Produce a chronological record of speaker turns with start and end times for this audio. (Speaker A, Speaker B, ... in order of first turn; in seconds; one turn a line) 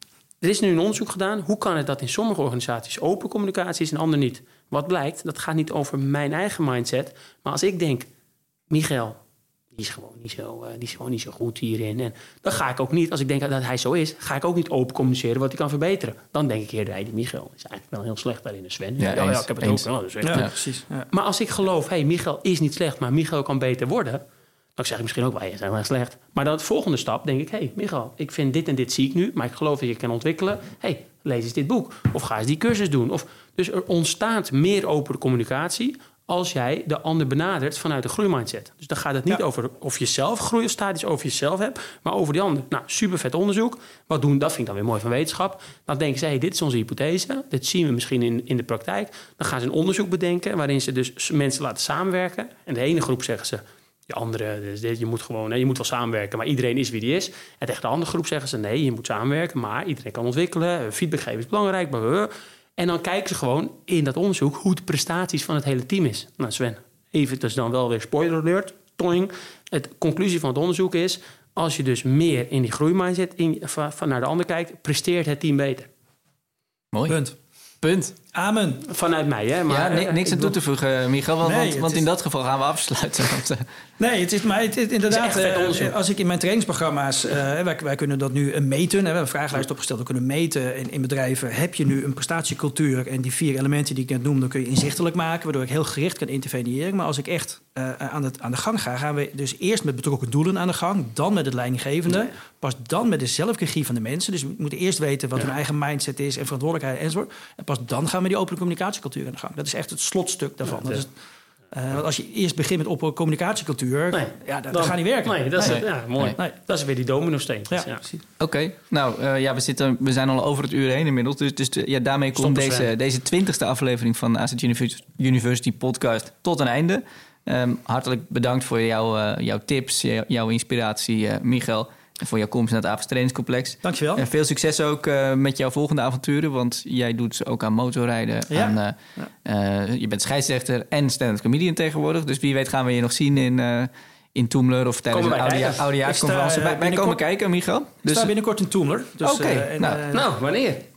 Speaker A: 0.4-8.1
Speaker A: 8.7-9.2
Speaker A: 9.7-20.6
Speaker B: 19.0-20.5
Speaker C: 20.2-21.1
Speaker A: 21.1-24.2
Speaker A: 24.8-75.9
Speaker B: 76.9-77.2
Speaker C: 77.1-77.3
Speaker B: 77.8-78.1
Speaker C: 78.3-78.8
Speaker A: 78.8-80.5
Speaker B: 79.7-83.6
Speaker C: 81.4-82.0
Speaker C: 84.0-111.1
Speaker A: 85.1-86.0
Speaker A: 110.7-111.0
Speaker C: 111.7-116.5
Speaker A: 114.1-118.1
Speaker B: 115.6-116.3
Speaker B: 118.4-148.3
Speaker A: 122.3-122.9
Speaker C: 133.8-134.2
Speaker C: 138.5-139.3
Speaker A: 145.1-145.9
Speaker C: 146.0-147.2
Speaker C: 148.1-150.3
Speaker B: 149.2-150.0
Speaker A: 150.1-150.8